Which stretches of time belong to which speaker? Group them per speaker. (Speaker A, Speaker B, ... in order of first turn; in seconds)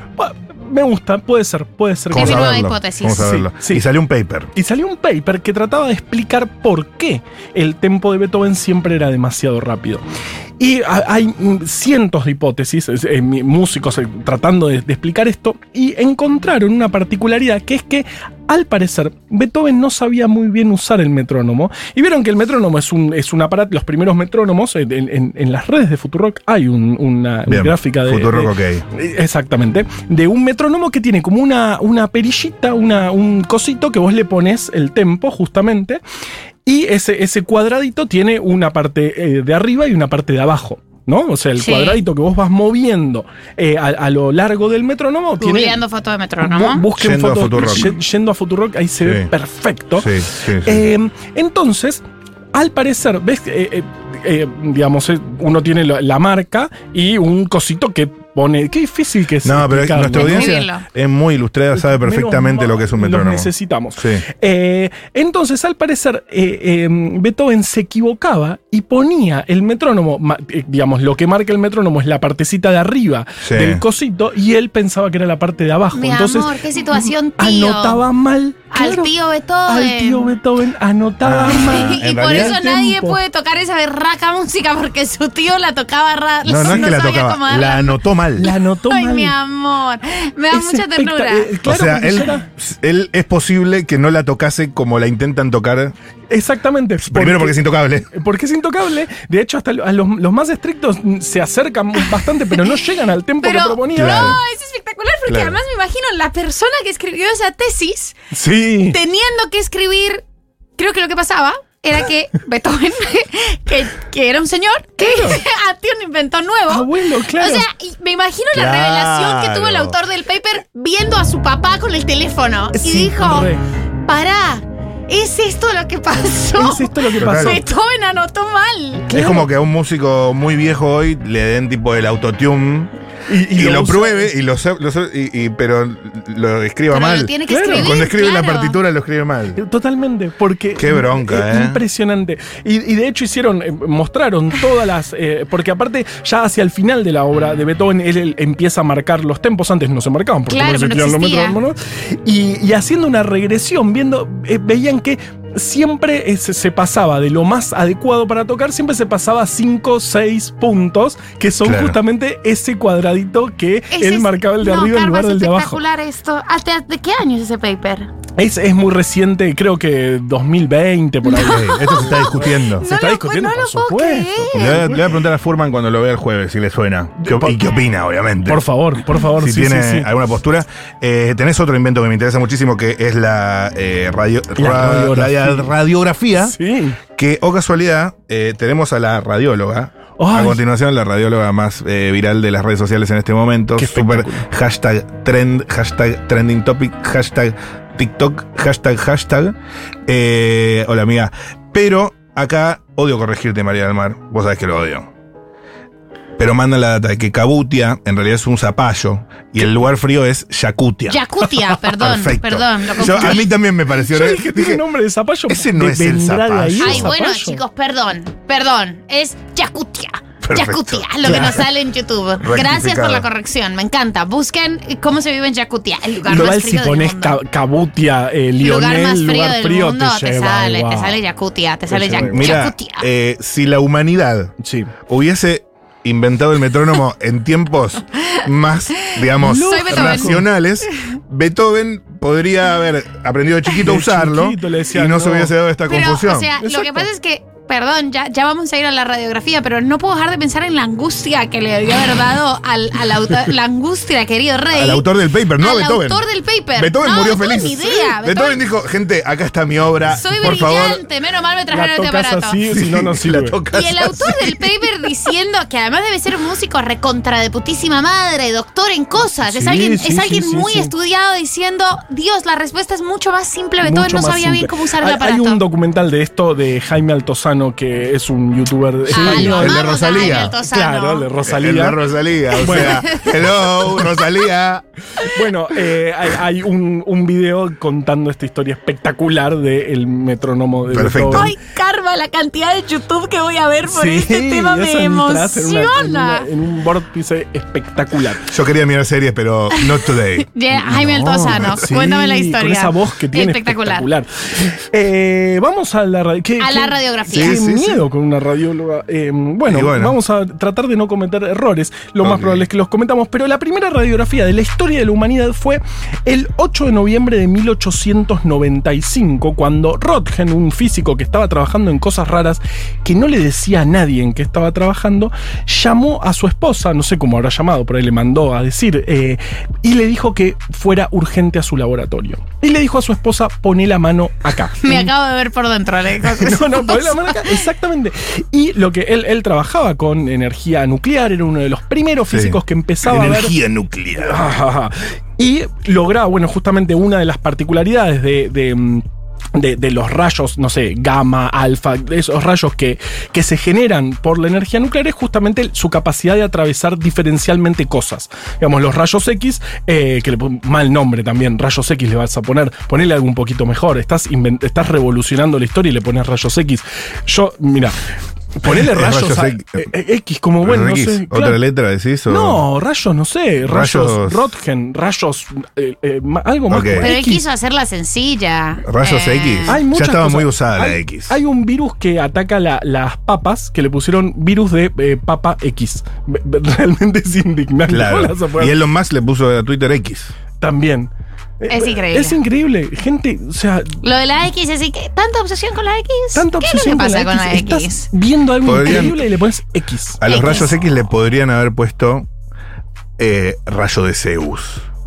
Speaker A: 0.2-3.8, 4.5-10.0, 10.6-36.0, 36.6-45.8, 46.4-52.0, 52.5-60.7, 61.8-79.1, 79.7-83.2, 86.6-86.9, 88.4-89.3, 90.5-92.5, 96.3-104.4, 108.3-109.0, 115.0-115.4, 116.7-117.6, 122.7-123.6, 126.5-127.7, 129.1-129.5, 133.3-134.3, 137.5-137.9, 139.5-165.8, 168.4-175.0, 177.2-177.7, 178.4-180.1, 184.6-185.7, 186.4-187.0, 190.2-190.6, 193.8-194.5, 213.0-213.4, 214.1-217.6, 221.2-221.6, 226.2-231.2, 231.9-232.6, 234.6-234.9, 239.3-240.4, 243.8-245.6, 246.6-247.1, 261.7-263.6, 269.4-270.9, 273.8-282.0, 282.6-283.1, 285.2-291.5, 293.8-298.5, 301.6-335.1, 336.2-343.6, 344.2-368.0, 368.6-371.6, 372.3-377.4, 379.6-388.8, 390.6-394.0, 396.3-400.4
Speaker B: 2.1-3.3, 41.6-42.0, 45.4-46.9, 60.1-60.9, 75.9-78.0, 78.7-80.3, 81.4-91.7, 103.4-108.2, 108.9-110.2, 110.8-123.5, 124.0-129.4, 136.9-138.8, 150.5-151.6, 163.9-168.1, 171.2-175.1, 211.1-213.5, 216.8-227.4, 228.6-233.1, 239.1-240.4, 245.8-258.6, 260.1-262.6, 263.7-275.6, 279.1-281.3, 282.6-284.3, 291.3-296.5, 299.7-304.1, 306.6-307.6, 334.8-337.6, 376.9-379.8, 391.7-392.4, 394.0-398.1, 400.2-400.8
Speaker C: 2.1-4.5, 27.5-28.8, 47.0-48.0, 50.0-50.8, 59.4-64.2, 73.4-73.8, 81.2-82.6, 86.4-88.5, 91.6-95.9, 97.0-98.1, 103.9-104.4, 105.3-105.6, 118.5-120.0, 127.2-127.6, 129.1-132.9, 133.5-139.6, 140.8-141.8, 161.6-162.0, 171.3-172.8, 174.5-178.6, 179.4-186.5, 187.2-205.1, 206.4-211.2, 211.9-214.8, 215.5-217.1, 220.4-221.7, 222.4-223.3, 232.1-234.5, 235.1-246.5, 254.7-256.2, 256.8-261.0, 262.7-264.7, 279.1-280.6, 281.4-284.8, 290.9-291.5, 298.4-301.8, 307.3-308.0, 309.6-310.2, 312.2-312.7, 342.3-344.5, 368.6-369.9, 370.6-372.6, 373.6-374.5, 376.7-377.1, 378.9-381.3, 387.9-390.3, 398.6-399.3, 400.2-402.3, 403.2-404.8